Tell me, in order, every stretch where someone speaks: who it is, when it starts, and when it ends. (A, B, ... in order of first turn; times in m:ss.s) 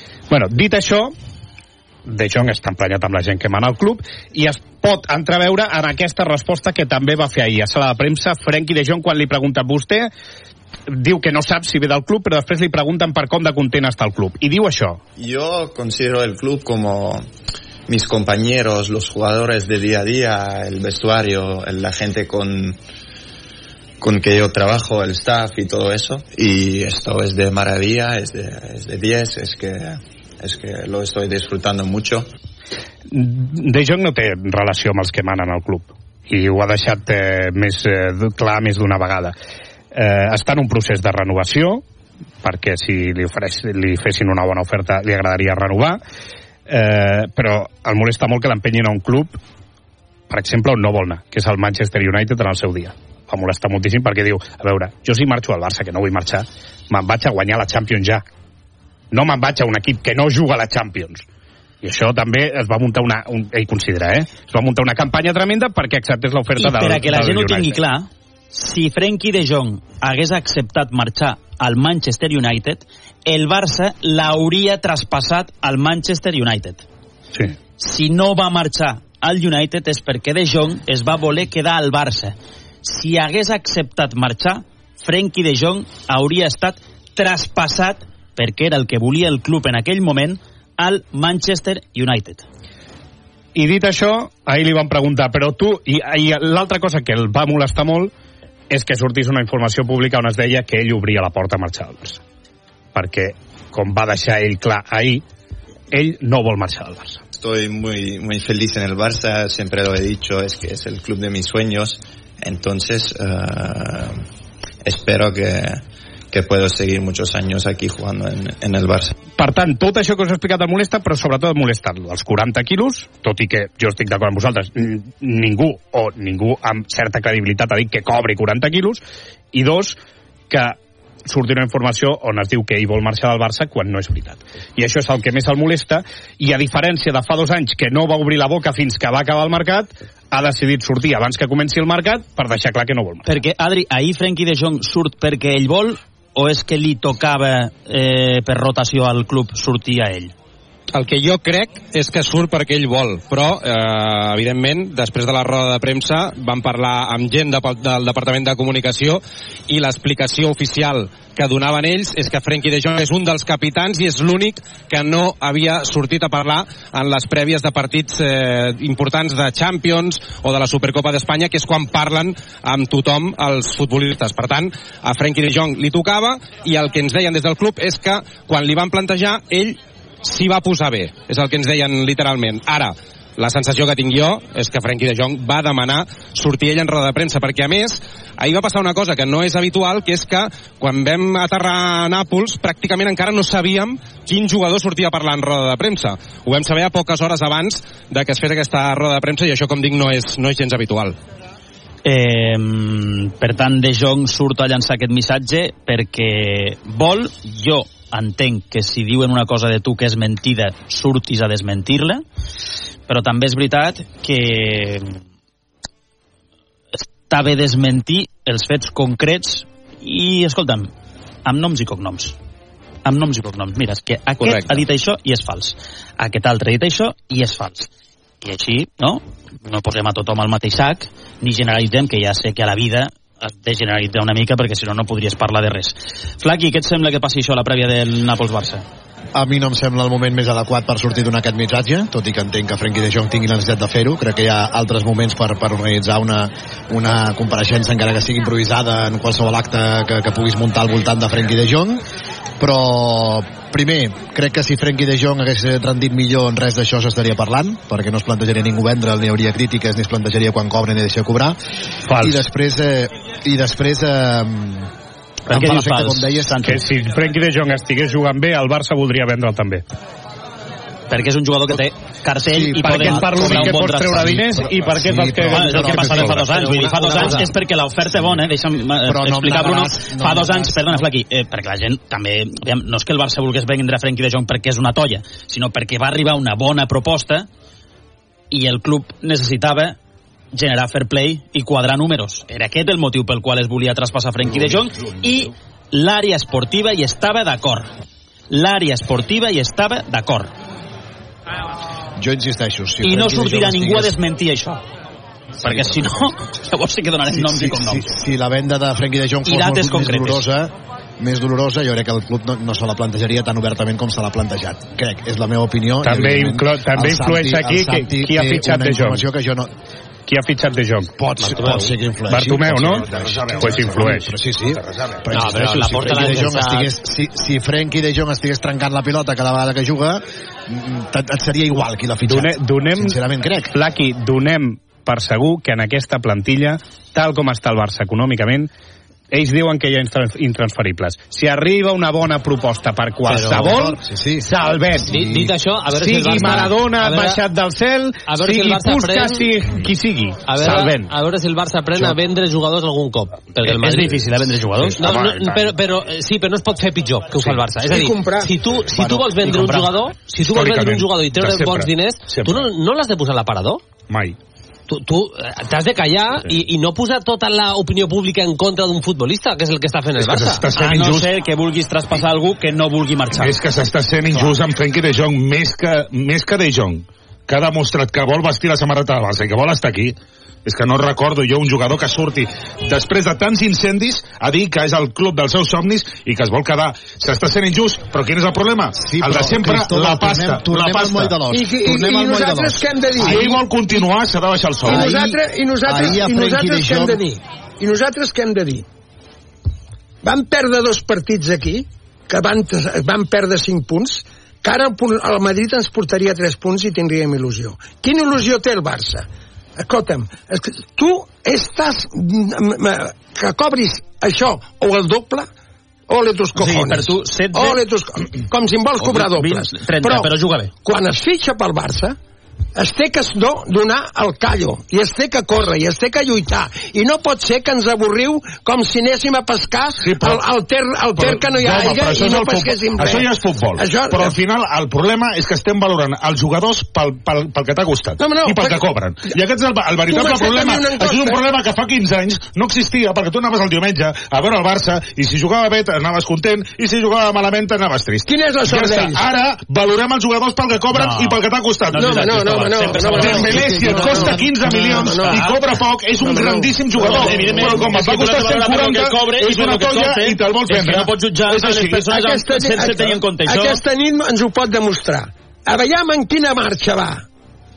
0:00.3-0:01.1 A
0:02.0-0:10.1 A
0:10.9-0:15.0 A
0:15.2-0:17.2 B
0:17.9-0:22.8 B
0:24.0-0:32.3 B
0:33.1-0:39.3 A
0:39.9-0:41.8 A
0:42.4-0:46.0 A
0:46.7-0:49.4 A
0:50.3-0:58.2 A
0:59.1-1:01.2 A
1:01.8-1:07.8 A
1:06.6-1:16.8 C
1:17.8-1:32.4 C
1:33.5-1:38.1 A
1:38.7-1:42.2 A
1:42.9-1:45.2 A
1:45.9-1:47.2 A
1:47.3-1:54.2 B
1:54.8-1:55.8 B
1:56.3-1:59.1 B
1:59.4-2:09.0 A
2:09.5-2:10.0 A
2:10.5-2:23.3 A
2:23.2-2:30.3 C
2:30.9-3:21.2 D
3:22.0-3:32.2 C
3:33.1-3:35.2 C
3:36.9-3:40.9 C
3:41.4-3:42.4 C
3:43.0-3:47.9 C
3:48.4-3:58.8 C
3:59.3-4:12.0 E
4:12.6-4:21.6 E
4:22.1-4:22.4 A
4:22.2-4:24.9 E
4:25.5-4:26.8 C
4:25.5-4:26.6 E
4:26.6-4:29.8 A
4:31.1-4:34.4 C
4:32.4-4:37.5 E
4:32.8-4:36.5 A
4:35.5-4:47.5 C
4:36.8-4:37.3 F
4:39.0-4:41.0 E
4:48.5-4:50.0 C
4:50.5-4:57.9 C
4:58.5-5:00.5 C
5:02.2-5:04.2 E
5:03.0-5:04.8 C
5:05.6-5:08.1 C
5:05.6-5:06.0 E
5:07.3-5:19.7 E
5:09.4-5:10.4 C
5:16.0-5:19.2 A
5:20.3-5:21.1 A
5:21.2-5:33.7 E
5:21.4-5:21.9 F
5:22.3-5:24.3 A
5:22.8-5:25.3 G
5:25.3-5:26.9 F
5:32.3-5:33.2 A
5:33.7-5:38.7 A
5:39.3-5:45.2 A
5:43.3-5:44.5 E
5:43.6-5:43.8 F
5:45.1-5:45.5 E
5:45.1-5:47.4 F
5:46.0-5:51.1 A
5:48.3-5:49.5 F
5:50.5-6:03.8 F
5:53.6-5:55.2 C
5:55.1-5:55.6 A
5:57.4-5:57.6 G
5:57.8-5:58.6 H
5:58.9-5:59.8 E
5:59.5-6:02.7 G
6:04.1-6:04.4 G
6:04.9-6:10.7 F
6:10.2-6:11.3 G
6:10.8-6:13.6 C
6:13.4-6:31.3 G
6:28.9-6:33.4 E
6:31.5-6:33.6 H
6:33.2-6:35.2 G
6:34.8-6:37.2 E
6:34.8-6:38.8 H
6:40.2-6:49.2 H
6:49.8-6:55.5 H
6:56.1-7:00.3 H
6:56.6-6:57.8 C
6:59.0-7:00.7 C
7:00.8-7:02.2 H
7:02.8-7:14.4 H
7:10.0-7:10.4 G
7:11.2-7:42.1 G
7:18.2-7:18.8 H
7:20.1-7:21.4 H
7:28.3-7:29.2 H
7:30.9-7:31.4 C
7:31.9-7:33.5 C
7:32.0-7:35.6 H
7:33.3-7:35.2 E
7:36.2-7:37.9 H
7:37.0-7:43.8 C
7:42.1-7:47.2 H